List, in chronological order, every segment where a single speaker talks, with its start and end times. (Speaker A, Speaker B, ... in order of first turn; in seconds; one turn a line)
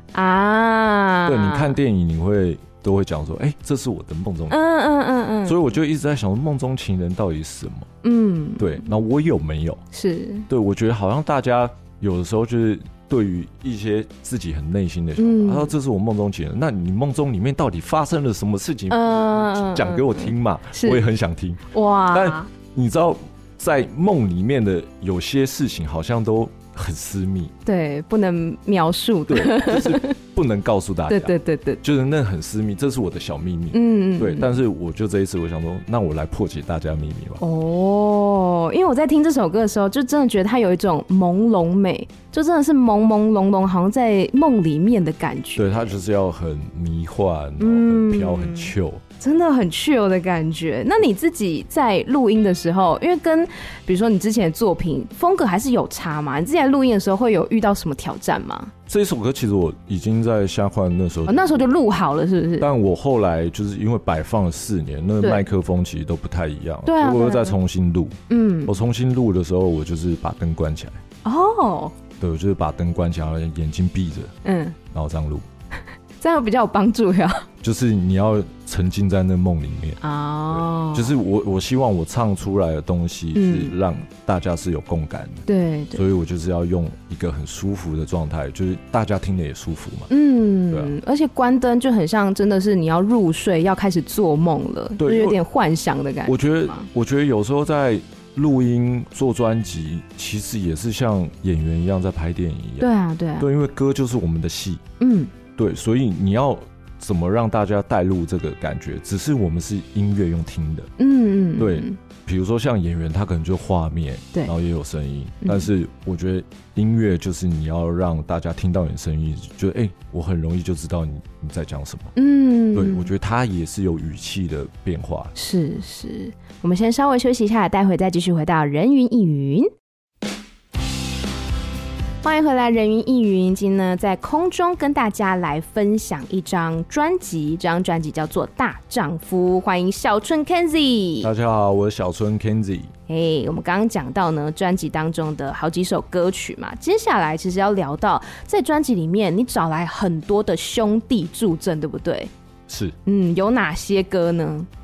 Speaker A: 0.1-1.8
Speaker B: 1.3-4.6
Speaker A: 4.5-5.6
Speaker B: 5.5-7.9
Speaker A: 8.0-8.8
Speaker B: 8.6-9.8
Speaker A: 9.9-10.5
Speaker B: 10.5-27.5
Speaker A: 15.2-15.7
Speaker A: 18.9-21.0
Speaker A: 21.7-22.5
Speaker A: 27.6-30.1
Speaker B: 29.3-37.4
Speaker A: 31.1-31.8
Speaker A: 33.7-34.5
Speaker A: 37.4-46.0
Speaker B: 45.6-49.0
Speaker A: 47.6-58.7
Speaker B: 58.9-61.6
Speaker A: 61.3-62.7
Speaker B: 62.6-71.0
Speaker A: 66.9-67.6
Speaker A: 68.3-68.7
Speaker A: 71.2-72.0
Speaker B: 72.2-74.3
Speaker A: 74.5-74.8
Speaker B: 74.9-75.5
Speaker A: 76.2-77.5
Speaker B: 77.6-90.1
Speaker A: 80.0-81.1
Speaker A: 83.3-83.7
Speaker A: 85.5-86.0
Speaker A: 90.1-96.9
Speaker B: 95.0-95.4
Speaker B: 96.3-104.8
Speaker A: 102.8-103.5
Speaker A: 105.0-105.3
Speaker B: 105.6-110.9
Speaker A: 111.0-112.0
Speaker B: 111.6-122.2
Speaker A: 115.4-115.7
Speaker A: 122.2-123.1
Speaker B: 122.7-125.3
Speaker A: 125.3-129.7
Speaker A: 132.2-141.3
Speaker B: 141.2-142.9
Speaker A: 143.1-152.3
Speaker B: 152.7-153.0
Speaker A: 153.1-154.7